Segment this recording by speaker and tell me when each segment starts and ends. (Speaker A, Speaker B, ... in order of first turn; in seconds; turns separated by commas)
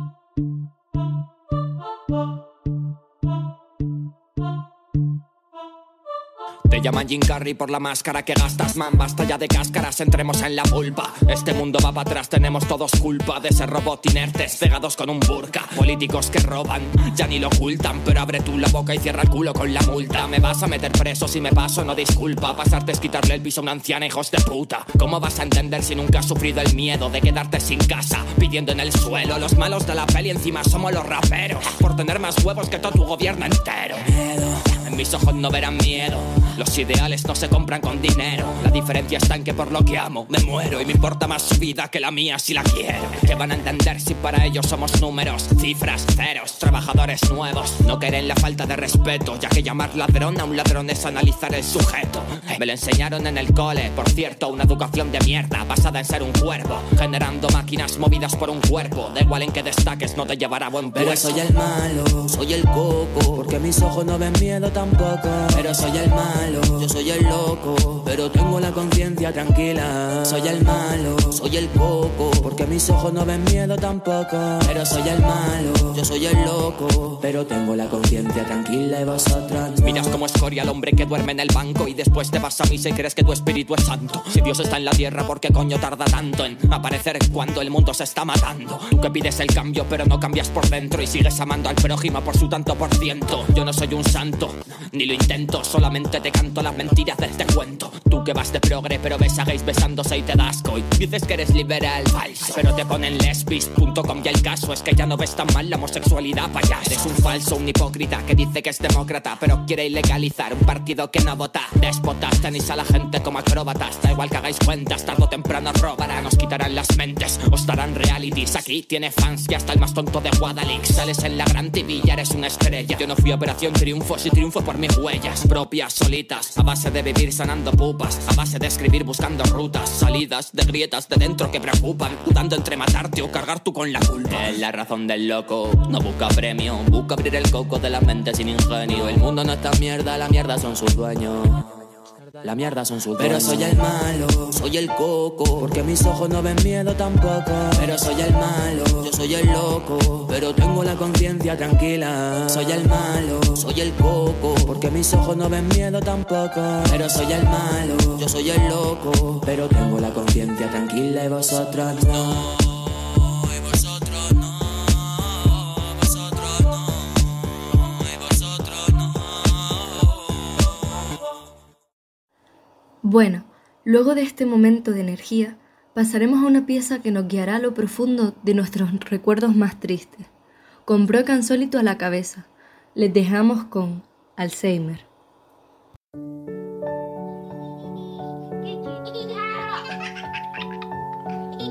Speaker A: 6.7-34.0, Speaker B: 34.2-34.5, Speaker A: 34.7-61.4, Speaker B: 60.9-80.2, Speaker A: 79.8-140.7, Speaker B: 140.7-141.6, Speaker A: 142.4-143.8, Speaker B: 142.5-162.6, Speaker C: 173.0-180.3, Speaker C: 180.9-185.1